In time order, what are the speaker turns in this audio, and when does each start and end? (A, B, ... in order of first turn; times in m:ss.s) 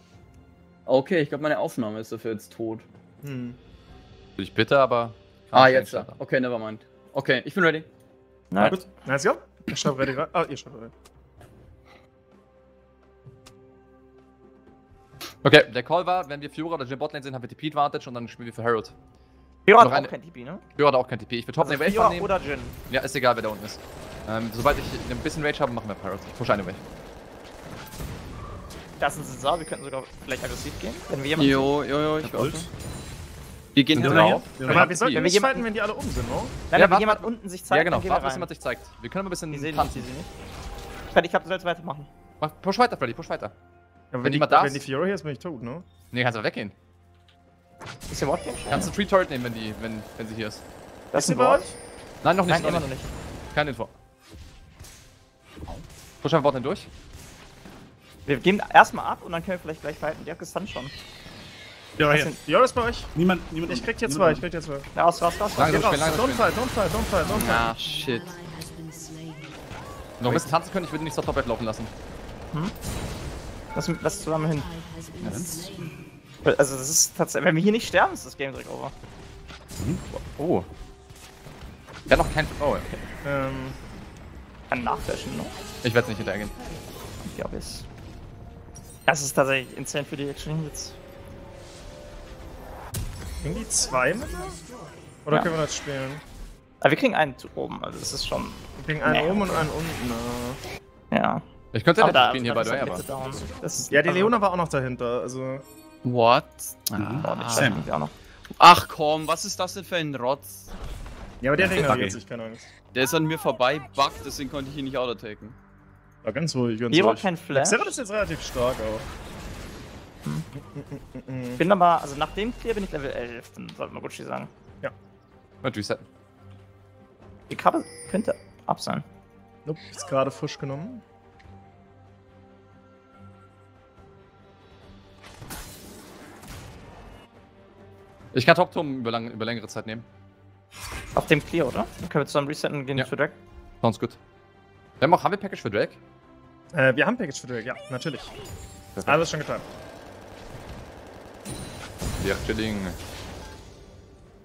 0:00.8-0:02.8 A
0:03.2-0:03.6 B
0:04.4-0:06.1 C
0:05.5-0:07.9 A
0:08.5-0:08.8 D
0:08.6-0:10.9 B
0:15.4-0:18.9 C
0:19.6-0:20.6 D
0:19.8-0:20.1 C
0:20.7-0:22.3 C
0:21.6-0:22.8 D
0:22.9-0:26.8 C
0:29.0-0:31.7 D
0:31.4-0:32.7 A
0:32.2-0:32.7 E
0:33.7-0:34.5 A
0:33.9-0:35.2 C
0:34.0-0:34.9 E
0:34.6-0:36.6 B
0:35.0-0:35.7 D
0:36.7-0:38.5 D
0:36.7-0:40.1 C
0:39.5-0:40.3 D
0:41.1-0:42.1 D
0:42.4-0:43.5 C
0:44.1-0:45.9 B
0:44.2-0:44.8 C
0:46.1-0:46.7 C
0:48.1-0:48.9 D
0:48.7-0:50.6 C
0:51.1-0:51.6 D
0:51.1-0:51.7 B
0:52.2-0:52.9 C
0:52.4-0:53.1 D
0:53.5-0:53.9 C
0:56.2-0:56.9 C
0:58.2-1:00.9 D
1:02.0-1:02.3 E
1:02.0-1:03.1 B
1:02.1-1:02.3 D
1:03.1-1:04.4 E
1:03.6-1:04.9 B
1:04.9-1:06.0 D
1:05.6-1:06.5 C
1:05.6-1:07.7 B
1:07.3-1:08.4 A
1:10.2-1:11.9 C
1:13.7-1:14.7 D
1:15.2-1:16.0 E
1:16.4-1:18.9 D
1:20.1-1:20.7 C
1:22.1-1:22.9 C
1:23.2-1:23.8 B
1:24.7-1:25.5 D
1:25.8-1:26.6 C
1:27.2-1:27.8 D
1:29.1-1:30.9 D
1:33.4-1:34.6 B
1:35.2-1:36.2 B
1:36.8-1:39.7 D
1:38.8-1:40.6 B
1:41.1-1:41.4 D
1:41.7-1:43.0 C
1:42.0-1:44.4 D
1:43.9-1:45.6 B
1:46.0-1:47.8 A
1:47.0-1:47.8 E
1:47.2-1:48.1 D
1:48.6-1:50.7 A
1:51.4-1:52.7 B
1:51.6-1:52.2 E
1:52.9-1:55.5 A
1:56.2-1:59.1 B
1:56.9-1:57.9 D
2:00.6-2:01.6 B
2:01.6-2:04.5 D
2:05.6-2:06.0 C
2:07.5-2:09.0 D
2:09.6-2:11.0 B
2:18.3-2:20.0 C
2:21.1-2:23.3 D
2:23.8-2:24.2 C
2:25.0-2:26.0 C
2:26.7-2:28.3 B
2:29.0-2:29.7 B
2:32.2-2:33.0 C